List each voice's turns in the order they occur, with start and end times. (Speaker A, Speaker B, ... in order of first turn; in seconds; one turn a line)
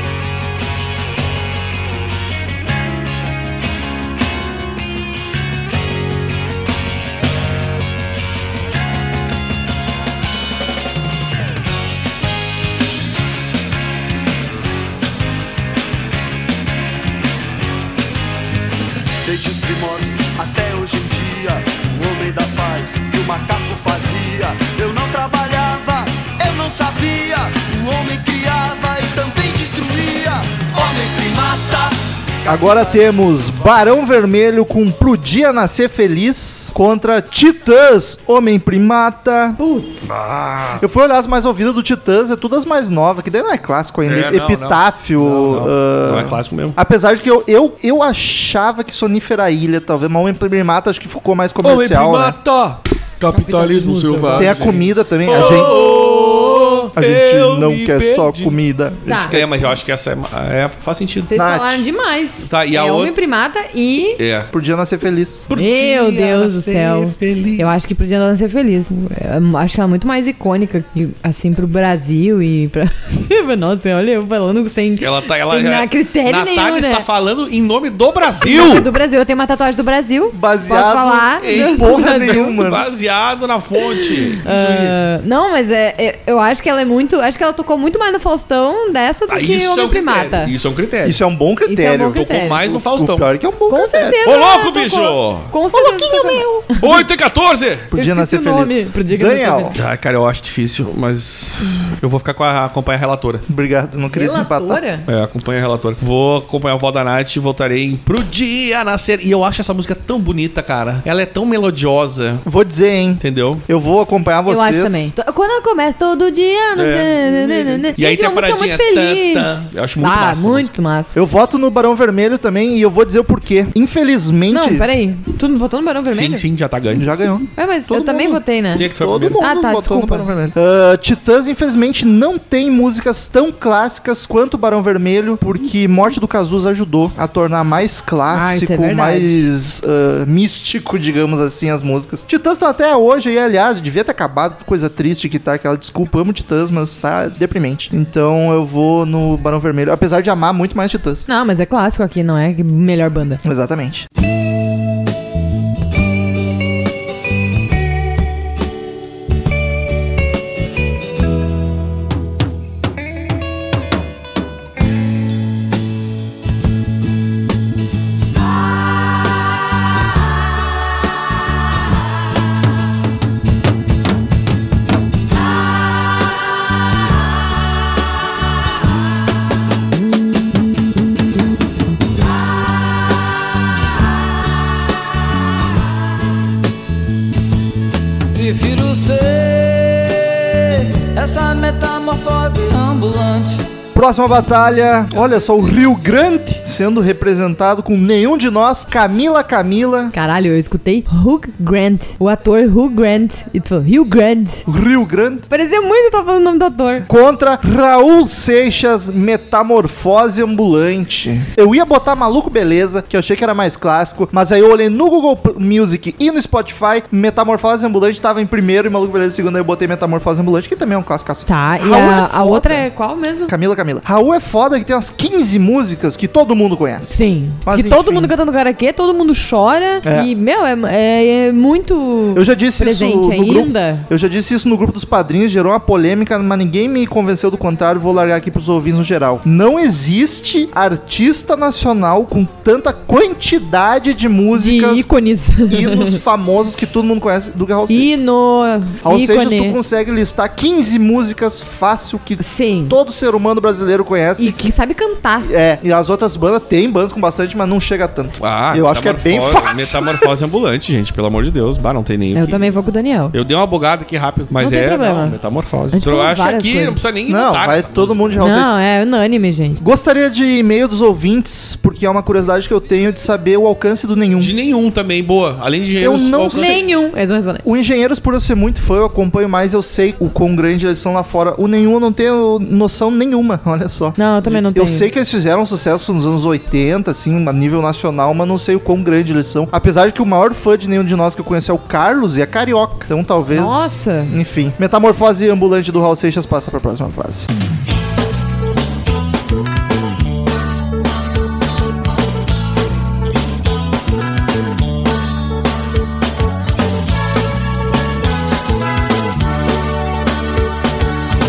Speaker A: 19.2-33.9
Speaker B: 32.5-39.6
Speaker C: 39.6-40.1
Speaker D: 40.1-40.8
Speaker B: 40.8-52.4
Speaker D: 44.0-46.8
Speaker D: 51.6-58.6
Speaker C: 53.3-54.5
Speaker B: 54.4-55.8
Speaker B: 57.0-59.7
Speaker C: 59.1-59.4
Speaker D: 59.3-61.3
Speaker C: 61.3-64.2
Speaker B: 61.3-61.8
Speaker D: 62.5-63.1
Speaker D: 64.2-64.5
Speaker B: 64.5-65.5
Speaker D: 65.5-67.8
Speaker C: 65.5-77.0
Speaker D: 75.0-78.9
Speaker C: 78.4-82.6
Speaker B: 80.3-82.9
Speaker D: 81.4-85.0
Speaker C: 83.9-90.5
Speaker D: 89.3-91.2
Speaker B: 91.0-94.2
Speaker C: 91.7-92.6
Speaker D: 92.2-93.3
Speaker C: 93.7-96.9
Speaker D: 94.2-95.5
Speaker B: 95.7-96.7
Speaker D: 96.8-97.9
Speaker B: 97.9-99.8
Speaker C: 97.9-99.7
Speaker D: 99.8-103.4
Speaker B: 103.5-104.8
Speaker C: 104.1-105.1
Speaker D: 105.1-112.4
Speaker B: 112.5-115.1
Speaker D: 113.2-113.6
Speaker C: 114.5-121.2
Speaker D: 116.8-120.7
Speaker B: 121.2-124.8
Speaker C: 124.5-126.4
Speaker D: 126.1-127.1
Speaker B: 126.9-151.2
Speaker C: 127.6-130.3
Speaker D: 128.7-129.4
Speaker C: 138.3-139.5
Speaker C: 151.3-153.4
Speaker B: 153.4-154.1
Speaker E: 188.3-193.6
Speaker B: 193.9-200.1
Speaker C: 200.1-204.7
Speaker B: 204.7-205.5
Speaker C: 205.5-207.1
Speaker B: 207.1-222.9
Speaker C: 221.5-223.5
Speaker B: 223.5-228.3
Speaker C: 227.1-234.1
Speaker B: 230.0-230.3
Speaker B: 232.3-245.1
Speaker C: 244.5-246.2
Speaker B: 245.7-248.2
Speaker C: 247.9-249.8
Speaker B: 249.0-254.6
Speaker C: 252.4-253.0
Speaker C: 254.4-255.5
Speaker B: 255.4-260.5
Speaker D: 258.4-262.7
Speaker C: 262.3-263.4
Speaker D: 263.3-268.4
Speaker C: 264.6-265.4
Speaker C: 265.9-267.0
Speaker B: 267.3-268.7
Speaker C: 268.4-269.8
Speaker B: 269.8-274.5
Speaker D: 274.4-276.8
Speaker B: 276.0-276.8
Speaker C: 276.5-277.7
Speaker B: 277.6-297.5
Speaker C: 284.2-285.1
Speaker C: 293.5-294.3